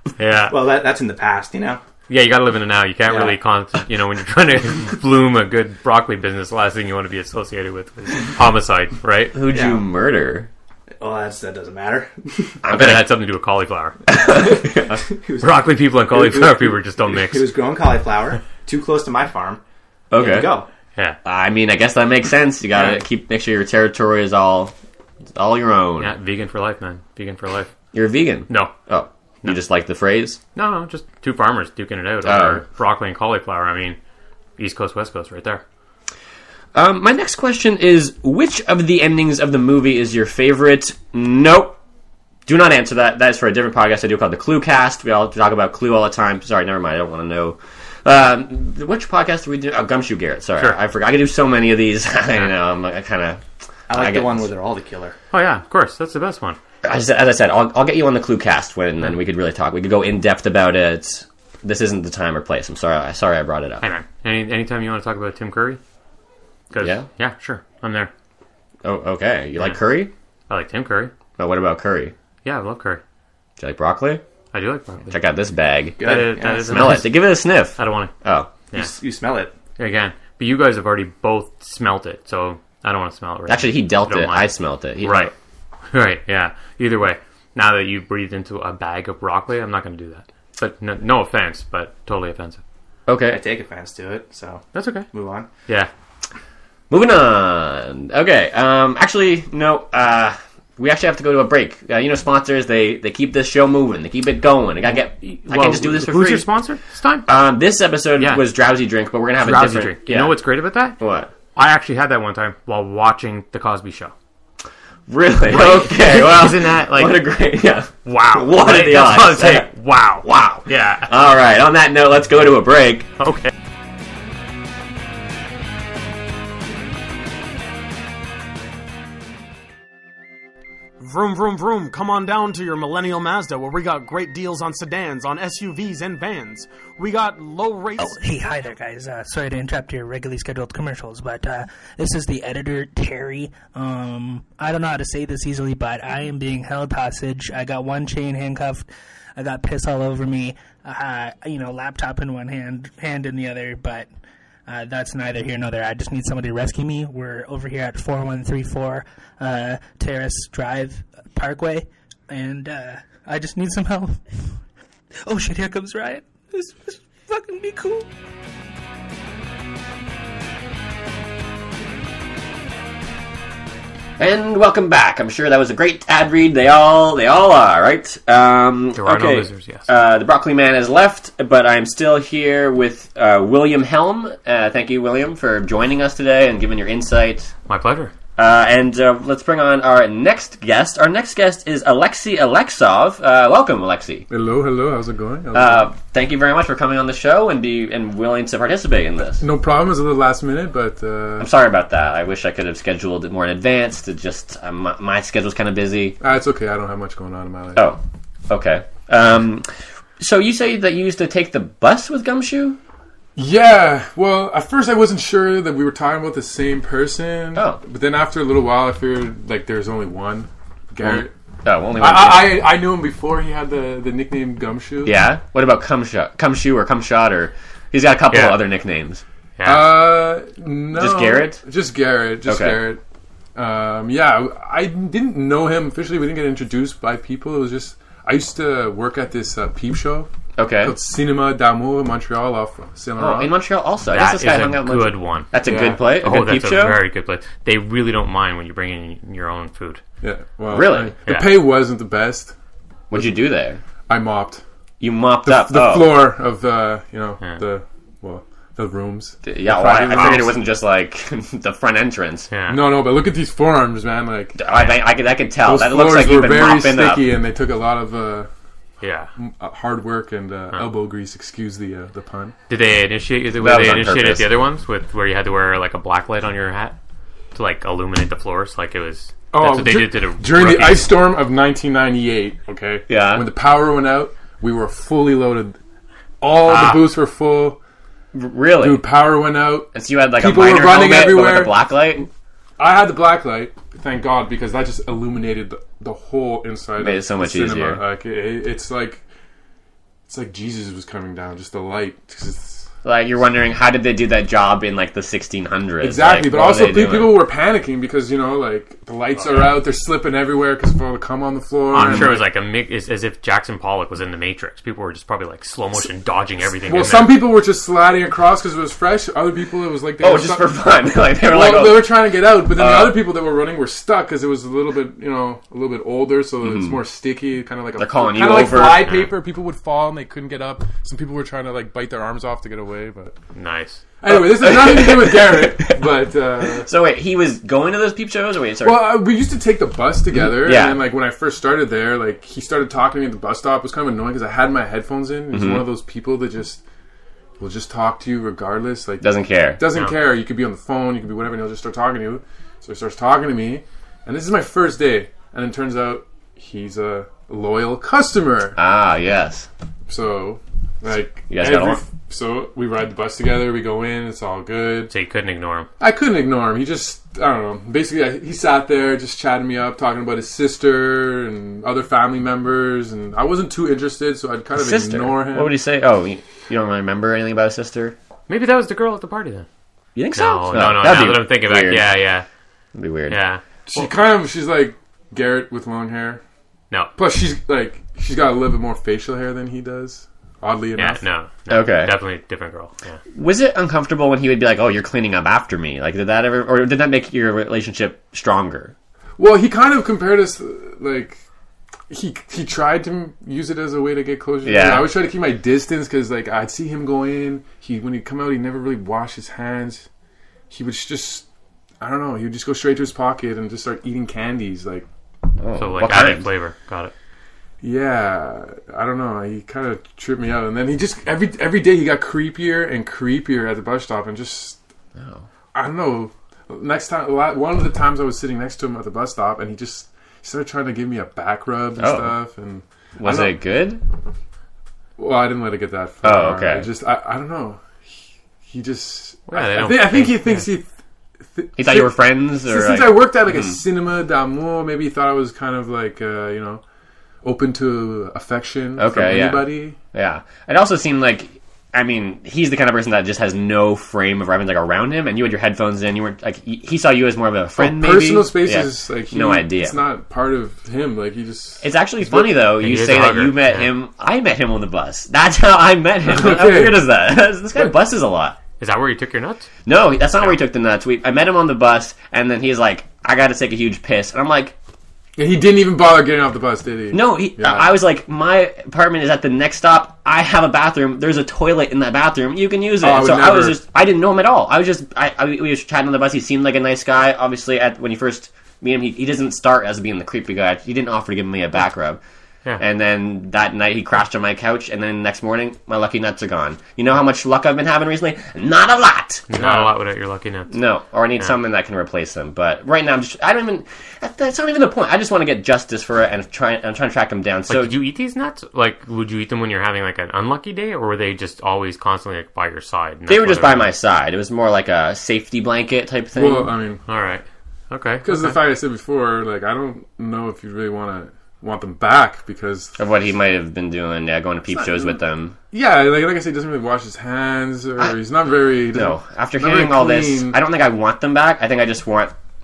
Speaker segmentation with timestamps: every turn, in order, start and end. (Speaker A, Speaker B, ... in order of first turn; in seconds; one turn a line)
Speaker A: 0.1-0.6
Speaker B: 0.5-1.8
Speaker A: 2.1-9.3
Speaker B: 3.1-3.4
Speaker C: 9.3-10.5
Speaker B: 9.5-9.8
Speaker B: 11.0-12.6
Speaker C: 12.6-13.1
Speaker A: 12.7-14.0
Speaker C: 14.1-15.0
Speaker B: 14.1-19.6
Speaker A: 15.4-17.5
Speaker C: 20.1-20.6
Speaker B: 20.1-20.7
Speaker C: 21.2-24.7
Speaker C: 25.3-26.1
Speaker A: 26.0-27.7
Speaker C: 27.9-30.4
Speaker A: 30.5-34.0
Speaker C: 32.2-32.6
Speaker A: 34.6-35.6
Speaker C: 36.7-41.8
Speaker C: 42.5-54.5
Speaker B: 53.9-55.1
Speaker A: 55.3-56.6
Speaker C: 56.8-63.8
Speaker A: 63.8-65.8
Speaker A: 66.7-68.1
Speaker C: 66.8-67.0
Speaker C: 68.8-70.1
Speaker A: 70.5-71.1
Speaker C: 71.4-72.1
Speaker A: 72.4-73.0
Speaker C: 73.6-74.2
Speaker A: 74.5-75.1
Speaker C: 75.1-78.5
Speaker B: 76.0-77.0
Speaker A: 76.0-77.1
Speaker A: 77.8-78.1
Speaker B: 78.7-79.5
Speaker A: 79.8-85.3
Speaker C: 83.5-85.3
Speaker A: 85.9-92.6
Speaker C: 93.1-93.4
Speaker B: 93.3-95.5
Speaker A: 94.7-95.1
Speaker C: 96.9-106.5
Speaker A: 105.2-107.3
Speaker C: 107.3-110.4
Speaker A: 108.2-108.4
Speaker A: 109.4-111.0
Speaker C: 111.0-111.3
Speaker A: 111.5-114.1
Speaker C: 115.1-119.7
Speaker A: 115.5-117.2
Speaker A: 118.0-121.1
Speaker C: 120.2-123.1
Speaker A: 123.2-123.5
Speaker D: 131.0-138.2
Speaker E: 138.0-154.1
Speaker E: 154.7-164.2
Speaker E: 165.3-168.1
Speaker C: 174.2-187.5
Speaker A: 178.9-179.9
Speaker A: 187.7-188.1
Speaker C: 188.4-194.3
Speaker F: 194.3-195.9
Speaker C: 195.5-199.4
Speaker F: 199.4-201.5
Speaker C: 201.4-206.2
Speaker F: 206.2-207.9
Speaker C: 207.8-209.7
Speaker C: 210.2-212.8
Speaker F: 213.3-221.3
Speaker C: 221.0-222.6
Speaker F: 221.9-225.2
Speaker C: 225.0-229.2
Speaker A: 228.3-228.6
Speaker A: 229.6-229.9
Speaker F: 229.6-233.0
Speaker C: 230.9-231.6
Speaker C: 232.4-232.8
Speaker F: 233.6-240.3
Speaker C: 240.6-240.9
Speaker F: 240.8-243.5
Speaker C: 243.2-247.0
Speaker A: 244.1-250.0
Speaker F: 245.6-246.0
Speaker F: 250.2-252.5
Speaker C: 250.7-251.1
Speaker C: 253.1-253.8
Speaker F: 254.1-254.6
Speaker C: 255.0-256.2
Speaker F: 255.4-260.6
Speaker C: 259.4-262.5
Speaker A: 262.5-262.8
Speaker F: 262.7-264.6
Speaker C: 264.6-267.3
Speaker F: 265.6-268.5
Speaker A: 269.0-269.3
Speaker F: 269.4-272.5
Speaker A: 272.7-277.0
Speaker C: 273.6-274.5
Speaker A: 277.5-281.1
Speaker F: 279.5-285.8
Speaker C: 283.1-283.4
Speaker F: 286.4-287.8
Speaker A: 286.6-287.0
Speaker C: 288.3-289.0
Speaker F: 288.8-291.8
Speaker C: 289.9-292.3
Speaker F: 292.8-299.2
Speaker C: 297.0-298.0
Speaker F: 300.3-302.9
Speaker C: 303.0-307.4
Speaker F: 306.0-312.4
Speaker A: 311.9-317.4
Speaker C: 311.9-312.3
Speaker F: 316.8-320.7
Speaker C: 320.2-322.1
Speaker F: 321.4-333.4
Speaker C: 322.7-323.2
Speaker C: 326.6-327.0
Speaker C: 328.0-329.1
Speaker A: 333.5-334.0
Speaker F: 334.2-336.9
Speaker C: 334.3-336.0
Speaker C: 336.6-339.1
Speaker F: 338.8-346.8
Speaker C: 340.3-341.0
Speaker C: 345.5-345.9
Speaker F: 347.6-358.8
Speaker C: 349.2-349.8
Speaker C: 358.8-359.7
Speaker F: 360.1-365.1
Speaker C: 361.5-362.0
Speaker A: 365.1-365.9
Speaker F: 366.0-375.7
Speaker C: 374.7-378.1
Speaker A: 378.5-379.7
Speaker C: 380.1-382.1
Speaker A: 380.3-382.4
Speaker C: 382.9-383.4
Speaker A: 383.3-384.1
Speaker F: 383.9-386.4
Speaker F: 387.2-391.2
Speaker A: 390.9-393.2
Speaker C: 391.7-392.1
Speaker C: 393.3-398.9
Speaker F: 399.4-401.4
Speaker F: 402.1-410.1
Speaker C: 404.6-405.1
Speaker F: 410.7-411.4
Speaker F: 412.0-415.1
Speaker C: 415.6-416.5
Speaker A: 415.8-417.1
Speaker F: 417.8-424.8
Speaker C: 425.2-425.4
Speaker F: 425.7-433.6
Speaker C: 432.0-432.3
Speaker C: 433.2-434.0
Speaker F: 435.2-440.9
Speaker C: 436.2-436.9
Speaker A: 439.5-440.6
Speaker F: 441.5-446.8
Speaker C: 441.8-443.8
Speaker F: 447.4-450.0
Speaker C: 449.0-459.9
Speaker F: 457.8-462.5
Speaker C: 461.8-468.6
Speaker A: 462.7-463.9
Speaker F: 466.2-467.1
Speaker A: 468.8-469.7
Speaker C: 469.9-474.7
Speaker F: 475.4-477.9
Speaker C: 477.1-492.2
Speaker F: 483.0-483.8
Speaker C: 492.8-499.5
Speaker A: 499.5-500.8
Speaker F: 499.6-499.9
Speaker C: 500.7-507.9
Speaker A: 507.7-513.9
Speaker C: 513.3-516.7
Speaker F: 516.4-517.0
Speaker A: 517.1-518.6
Speaker F: 518.2-523.0
Speaker C: 523.0-525.5
Speaker F: 524.7-525.2
Speaker F: 525.7-530.6
Speaker C: 528.9-532.3